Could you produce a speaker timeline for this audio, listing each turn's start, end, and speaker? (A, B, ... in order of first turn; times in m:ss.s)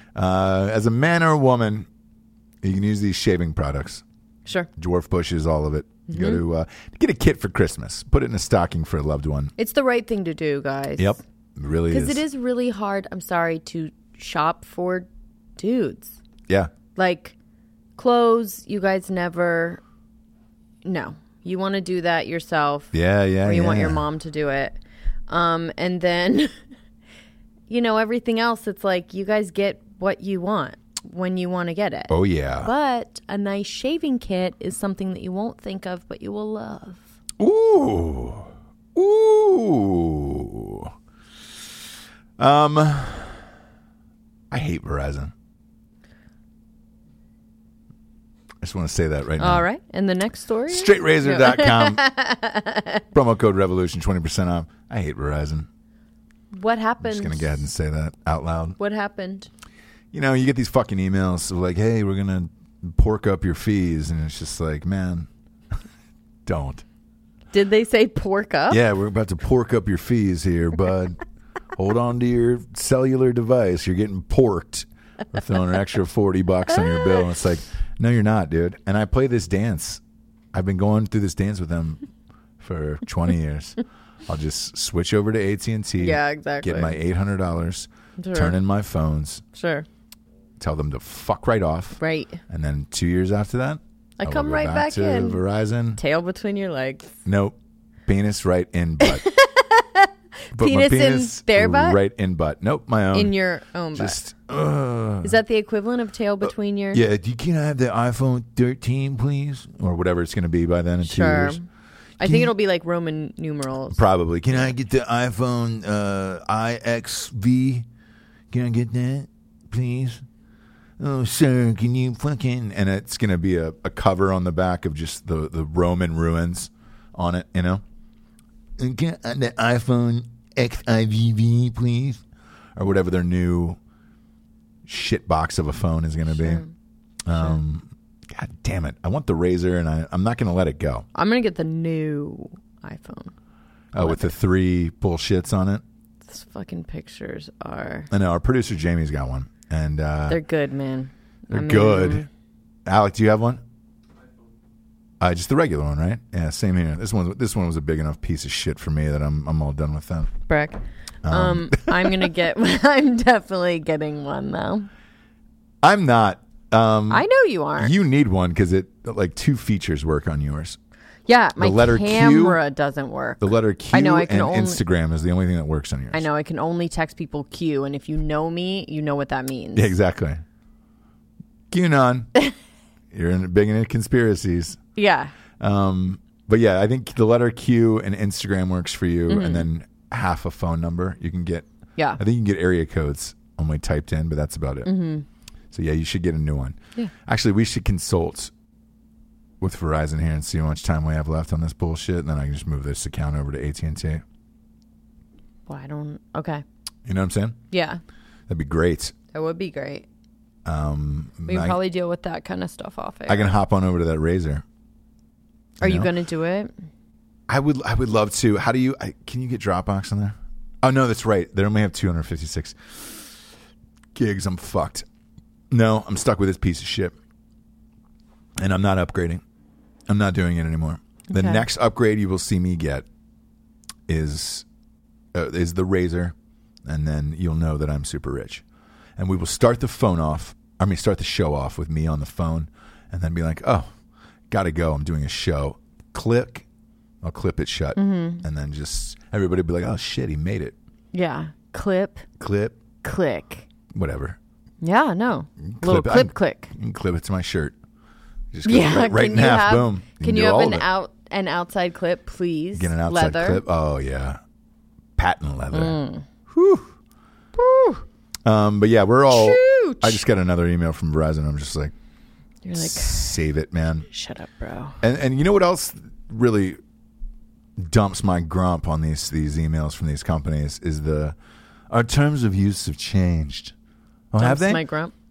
0:00.2-0:01.9 A
0:02.6-0:04.0 A
0:04.8-0:09.5 A
0:06.1-0:06.4 B
0:09.6-0:11.2 B
0:11.0-0:12.2 A
0:11.9-0:16.2 B
0:17.0-0:17.4 B
0:18.0-0:19.8 B
0:20.8-0:22.9 B
0:22.9-0:24.0 A
0:23.4-0:26.5 B
0:27.7-0:37.1 B
0:32.1-0:32.7 A
0:37.4-0:40.9 A
0:42.4-0:43.4 A
0:44.5-0:45.3 A
0:48.6-0:49.6 A
0:49.4-0:53.0 B
0:50.7-0:52.0 A
0:53.1-0:55.7 A
0:56.5-0:57.6 B
0:57.0-0:58.8 A
0:58.8-0:59.5 B
1:00.1-1:05.3 A
1:06.5-1:06.8 A
1:07.5-1:08.8 B
1:08.7-1:11.2 A
1:11.8-1:20.0 A
1:20.5-1:22.0 A
1:22.6-1:29.4 A
1:26.0-1:27.0 B
1:28.2-1:28.6 B
1:29.5-1:29.9 B
1:30.6-1:36.0 A
1:32.0-1:32.4 B
1:34.2-1:35.4 B
1:36.0-1:37.2 B
1:37.2-1:39.3 A
1:39.0-1:42.0 B
1:40.5-1:43.3 A
1:43.1-1:44.2 B
1:44.0-1:45.4 A
1:45.2-1:47.0 B
1:46.9-1:51.6 A
1:51.0-1:51.6 B
1:52.2-1:54.0 B
1:52.2-1:52.5 A
1:53.9-1:57.9 A
1:58.5-2:00.2 A
2:01.0-2:07.8 A
2:08.8-2:12.2 A
2:12.8-2:13.8 A
2:14.9-2:16.6 A
2:16.3-2:16.7 B
2:17.2-2:21.1 A
2:17.3-2:17.6 B
2:21.2-2:23.3 B
2:23.9-2:25.8 A
2:24.0-2:24.3 B
2:26.2-2:28.1 B
2:28.1-2:30.4 A
2:30.3-2:32.3 B
2:31.5-2:32.3 A
2:32.9-2:33.6 A
2:35.2-2:40.3 A
2:40.5-2:44.9 B
2:41.2-2:42.3 A
2:45.8-2:47.3 A
2:47.1-2:47.9 B
2:47.8-2:50.8 A
2:51.3-2:54.8 B
2:51.6-2:52.6 A
2:53.4-2:56.2 A
2:56.1-2:59.9 B
2:59.8-3:00.4 A
3:01.7-3:02.3 A
3:03.1-3:04.8 A
3:05.0-3:05.3 B
3:05.6-3:11.7 A
3:09.3-3:09.7 B
3:12.2-3:14.9 A
3:14.8-3:15.3 B
3:15.7-3:18.5 A
3:19.6-3:24.2 A
3:25.7-3:26.6 B
3:27.1-3:27.6 A
3:27.7-3:28.0 B
3:28.5-3:29.1 A
3:29.3-3:30.1 B
3:30.6-3:31.8 A
3:31.5-3:33.6 B
3:33.3-3:34.6 A
3:35.8-3:36.1 A
3:35.8-3:36.7 B
3:37.5-3:43.3 A
3:44.2-3:45.1 A
3:45.7-3:47.2 A
3:48.6-3:49.4 A
3:50.1-3:53.1 A
3:51.3-3:51.6 B
3:54.1-3:54.7 A
3:55.3-3:58.6 A
3:59.2-4:03.9 A
4:04.5-4:06.6 A
4:07.2-4:10.8 A
4:08.0-4:08.4 B
4:11.1-4:12.2 B
4:12.4-4:12.8 A
4:13.0-4:13.7 B
4:13.9-4:14.4 A
4:14.8-4:16.7 B
4:15.6-4:17.7 A
4:18.5-4:20.9 A
4:18.6-4:23.6 B
4:22.8-4:24.4 A
4:25.2-4:26.9 A
4:25.7-4:26.3 B
4:27.6-4:28.0 B
4:28.4-4:31.9 A
4:29.3-4:30.2 B
4:32.6-4:33.4 B
4:32.8-4:34.1 A
4:34.1-4:35.0 B
4:35.0-4:36.8 A
4:37.8-4:41.4 A
4:41.9-4:43.7 A
4:44.3-4:44.8 A
4:44.4-4:45.1 B